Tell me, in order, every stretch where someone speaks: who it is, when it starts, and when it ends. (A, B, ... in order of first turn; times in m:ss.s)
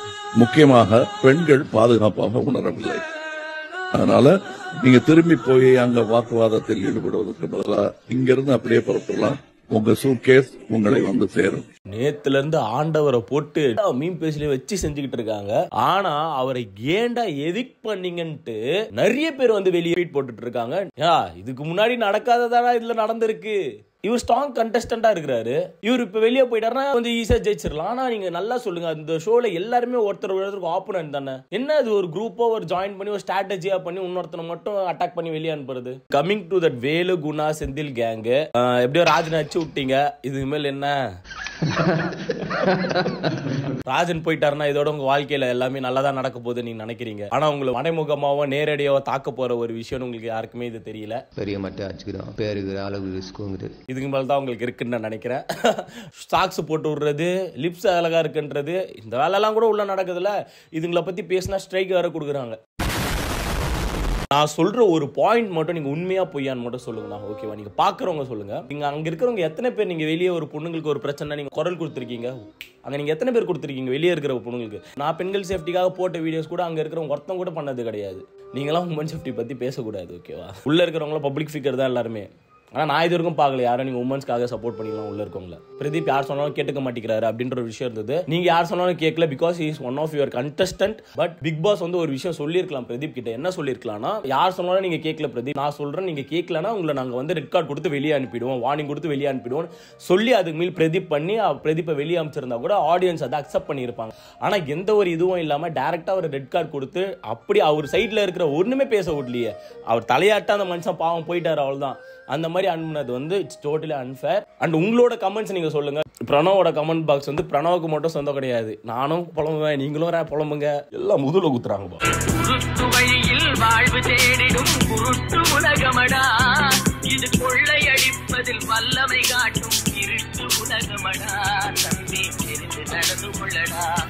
0:00.4-0:03.0 A
0:04.0-0:11.6 A
0:11.9-0:41.0 B
0:41.6-0:43.7 C
0:43.9-0:51.2 B
0:51.4-0:53.7 C
0:53.9-1:02.6 B
1:04.3-2:02.0 B
2:02.3-2:06.2 D
2:07.1-2:13.8 D